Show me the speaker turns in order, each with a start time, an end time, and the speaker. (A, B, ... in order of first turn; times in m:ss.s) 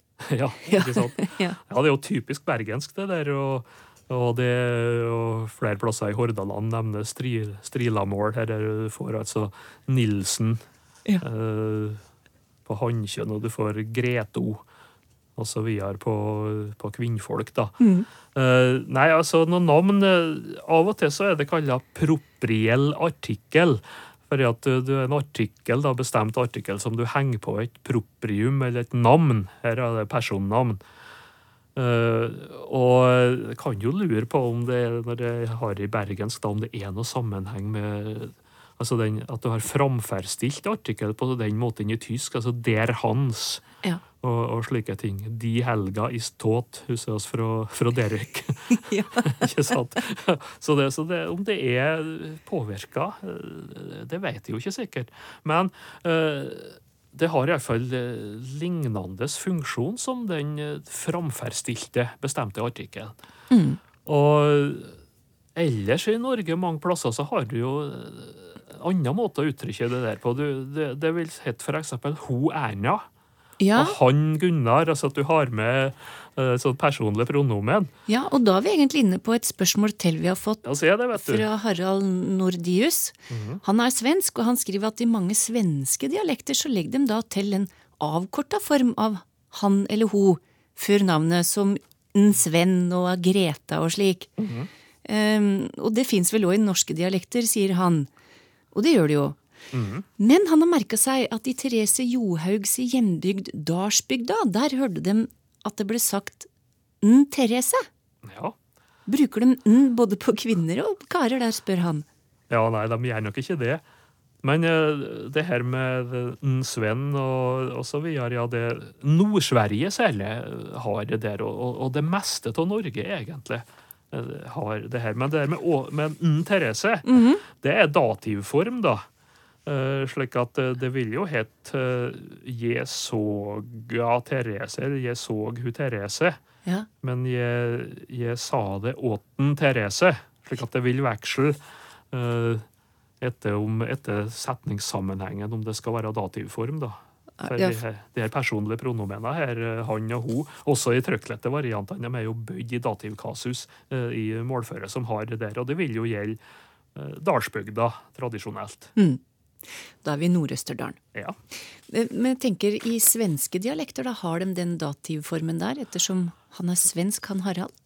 0:00.3-0:10.6 A
0:00.7-0:01.6 B
0:11.2-0:12.0 A
0:12.7-0:14.6 A
0:15.4-0:17.8 A
0:17.8-0:18.1 B
0:18.3-0:30.8 A
0:31.8-0:43.6 A
0:44.2-1:03.1 A
0:48.7-0:49.5 B
1:03.5-1:03.8 B
1:04.0-1:05.0 A
1:05.6-1:13.0 A
1:13.6-1:14.0 B
1:13.8-1:17.9 A
1:18.1-1:34.3 B
1:20.6-1:21.5 A
1:23.3-1:23.6 A
1:34.4-1:34.7 A
1:35.0-1:38.1 B
1:38.7-1:39.4 B
1:39.7-1:40.0 A
1:40.2-1:46.5 B
1:47.0-1:47.9 B
1:48.2-1:48.6 A
1:49.1-1:52.0 B
1:52.5-1:53.8 A
1:54.4-2:09.0 A
2:07.0-2:07.4 B
2:09.7-2:16.4 A
2:17.0-2:21.6 A
2:22.1-2:22.6 A
2:23.2-2:36.4 A
2:27.4-2:27.8 B
2:37.0-2:38.9 A
2:39.0-2:41.0 B
2:41.9-2:47.7 B